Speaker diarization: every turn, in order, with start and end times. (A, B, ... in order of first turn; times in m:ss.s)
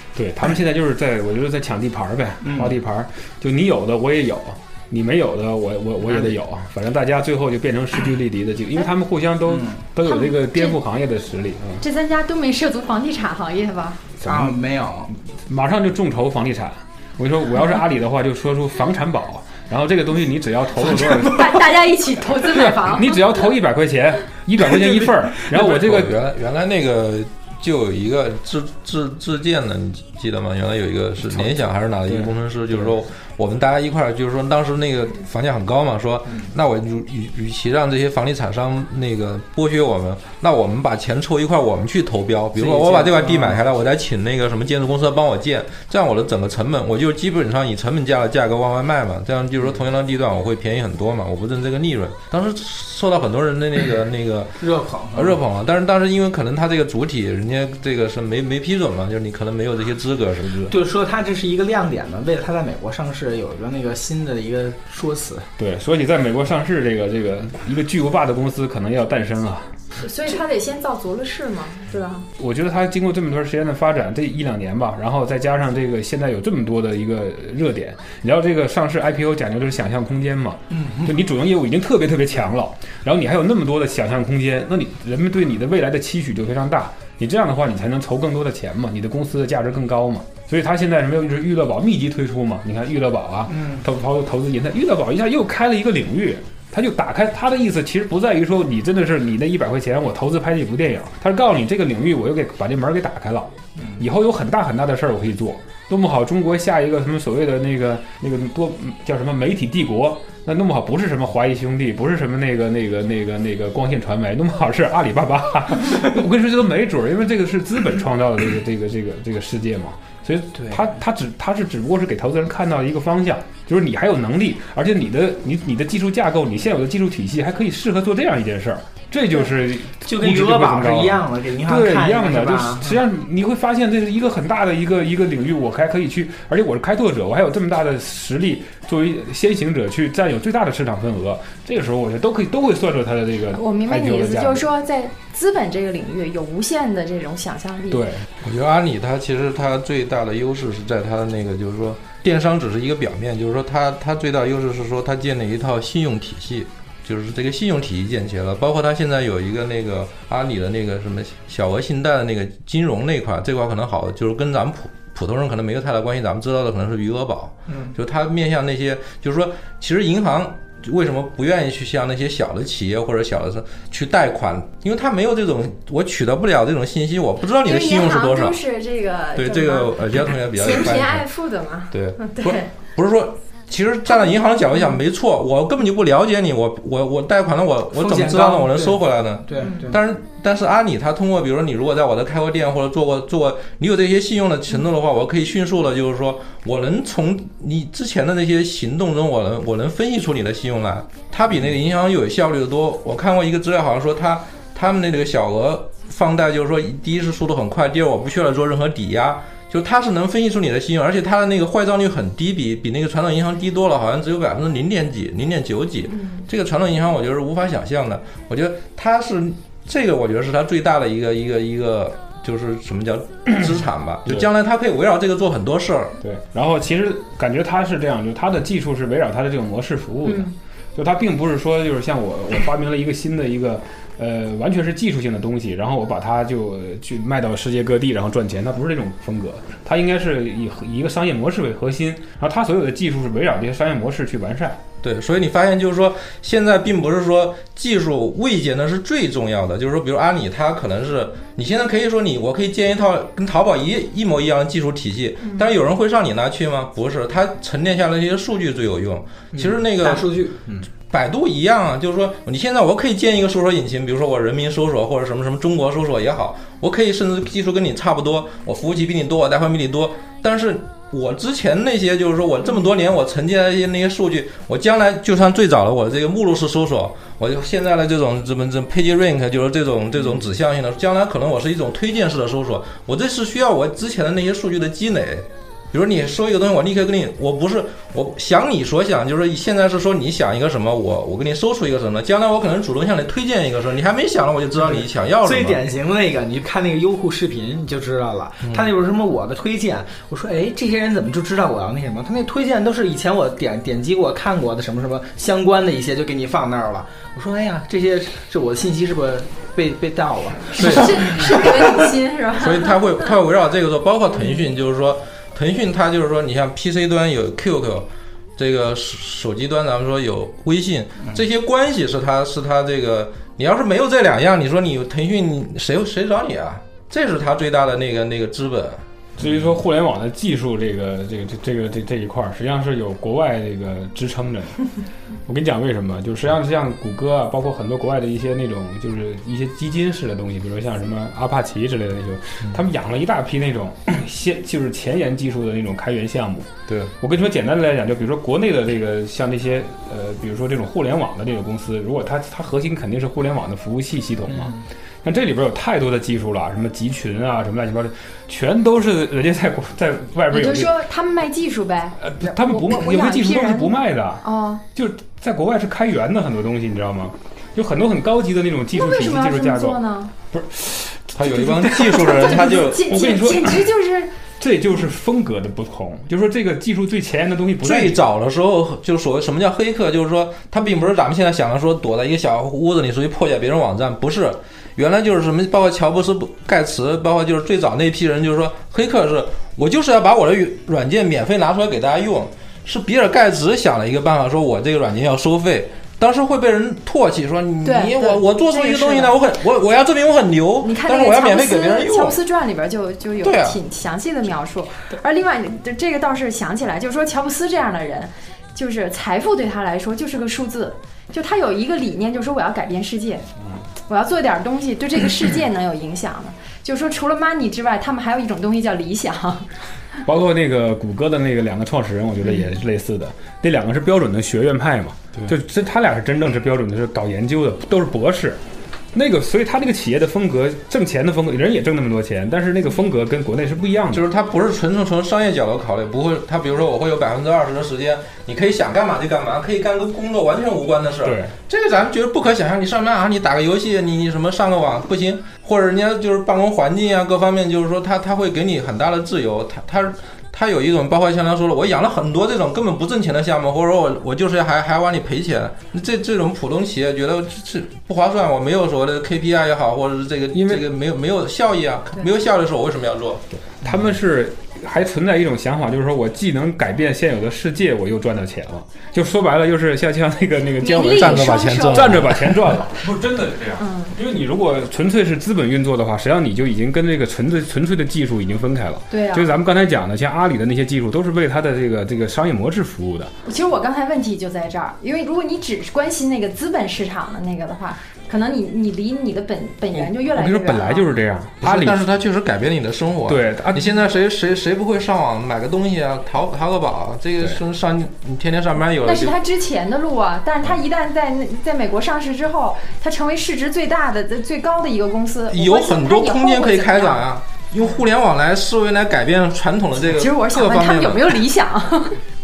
0:00.2-0:11.8 A
0:02.4-0:02.8 B
0:06.0-0:06.4 B
0:09.5-0:09.8 B
0:10.0-0:10.8 C
0:11.8-0:14.0 C
0:14.2-0:14.6 A
0:14.2-0:15.1 B
0:15.3-0:21.7 A
0:21.1-0:23.2 C
0:22.3-0:26.2 A
0:25.4-0:54.6 D
0:32.1-0:32.3 A
0:42.5-0:43.6 B
0:54.6-0:55.4 B
0:55.2-1:00.7 D
1:00.7-1:05.5 B
1:05.6-1:09.7 A
1:10.0-1:12.3 C
1:12.4-2:24.7 A
1:20.7-1:21.1 B
1:33.5-1:33.8 B
2:10.0-2:13.0 B
2:23.5-2:28.1 C
2:27.9-2:28.3 A
2:28.4-2:58.6 D
2:47.7-2:48.0 B
2:57.6-3:02.7 C
2:59.4-3:01.2 D
3:01.9-3:46.1 D
3:07.9-3:10.0 B
3:09.6-3:09.9 C
3:46.2-4:04.8 A
3:50.3-3:50.5 C
4:05.0-4:20.2 D
4:19.5-4:20.9 B
4:21.0-4:55.8 D
4:54.8-5:11.5 B
5:10.8-5:11.5 D
5:10.8-5:13.2 C
5:12.6-5:29.7 D
5:29.4-5:34.8 A
5:35.5-5:46.7 A
5:47.2-6:00.9 A
6:00.5-6:04.8 C
6:02.2-6:10.0 A
6:08.9-6:10.3 C
6:10.5-6:13.9 A
6:11.4-6:13.1 D
6:11.8-6:14.4 C
6:14.6-6:18.2 A
6:17.8-6:42.4 D
6:37.8-6:39.3 C
6:40.8-6:53.4 C
6:43.4-6:43.8 D
6:54.1-6:59.7 C
7:00.2-7:08.6 A
7:09.1-7:14.2 A
7:14.1-7:43.4 D
7:21.2-7:21.6 A
7:40.5-7:40.9 A
7:43.8-8:03.3 A
7:50.8-7:52.3 C
7:51.1-7:52.7 D
7:53.8-7:54.2 C
7:59.1-7:59.5 C
8:03.4-8:11.2 C
8:10.3-8:12.0 A
8:11.6-8:19.4 D
8:13.2-8:14.0 A
8:19.0-8:27.2 C
8:25.5-8:31.4 D
8:30.1-8:32.2 C